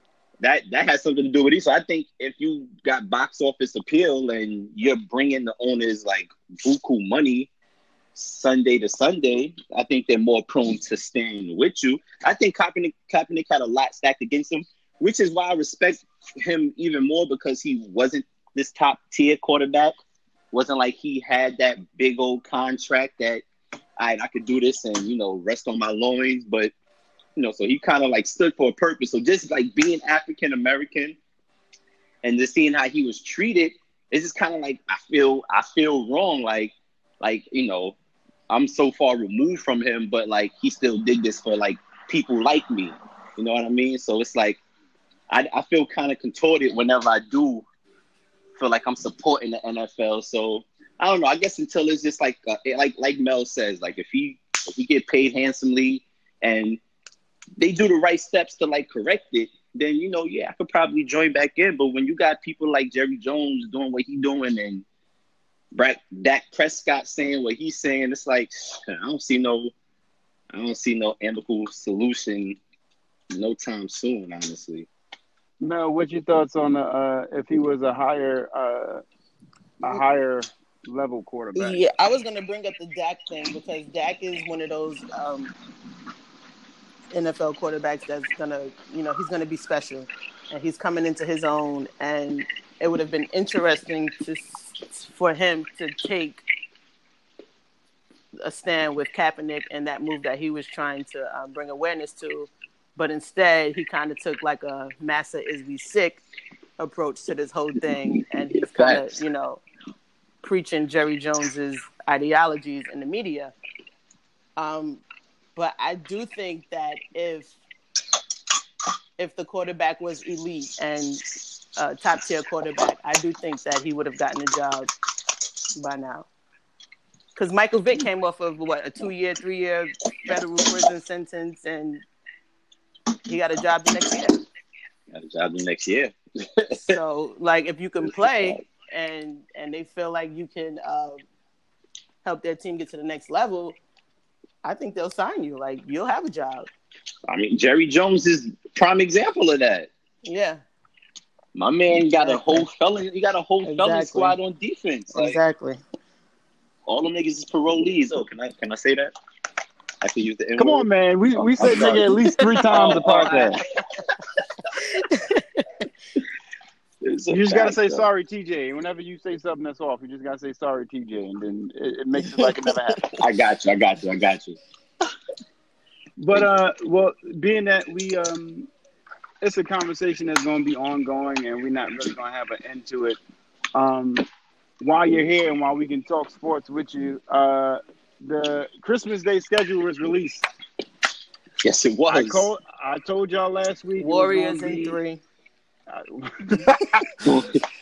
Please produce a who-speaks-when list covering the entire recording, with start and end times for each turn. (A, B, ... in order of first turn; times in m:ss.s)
0:00.4-0:07.5 A
0:08.1-0:19.9 A
0:20.5-0:23.4 A
0:24.0-0:26.7 A
0:27.4-0:31.2 A
0:32.2-0:38.0 A
0:38.5-0:44.6 A
0:45.3-0:47.6 A
0:48.6-0:56.8 A
0:57.6-1:04.8 A
1:05.7-1:09.7 A
1:10.5-1:12.6 A
1:13.3-1:14.9 A
1:15.6-1:19.0 B
1:19.8-1:21.8 B
1:21.6-1:25.5 C
1:27.1-1:36.4 C
1:38.4-1:46.2 C
1:46.8-1:49.6 C
1:48.5-1:49.2 A
1:50.4-1:53.5 C
1:54.6-1:55.0 C
1:55.6-1:57.6 C
1:59.2-2:01.2 C
2:01.8-2:04.9 C
2:05.8-2:06.3 C
2:07.4-2:12.0 C
2:13.2-2:14.4 C
2:15.1-2:16.9 A
2:16.8-2:21.2 C
2:18.1-2:18.6 A
2:22.2-2:23.8 C
2:24.6-2:26.7 C
2:27.3-2:29.9 A
2:30.2-2:30.6 C
2:31.5-2:35.4 A
2:32.2-2:32.6 C
2:33.6-2:34.4 C
2:35.1-2:35.8 C
2:36.9-2:39.1 A
2:40.0-2:42.1 A
2:40.6-2:43.6 B
2:42.4-2:43.6 C
2:42.6-2:43.6 A
2:44.8-2:45.9 C
2:47.0-2:48.0 A
2:47.3-2:53.0 B
2:53.1-2:54.6 A
2:56.2-2:58.7 B
2:59.4-3:03.2 B
3:03.7-3:04.2 B
3:04.8-3:10.4 B
3:11.6-3:12.5 A
3:12.1-3:15.0 B
3:14.0-3:15.2 C
3:15.9-3:17.0 B
3:17.2-3:17.6 A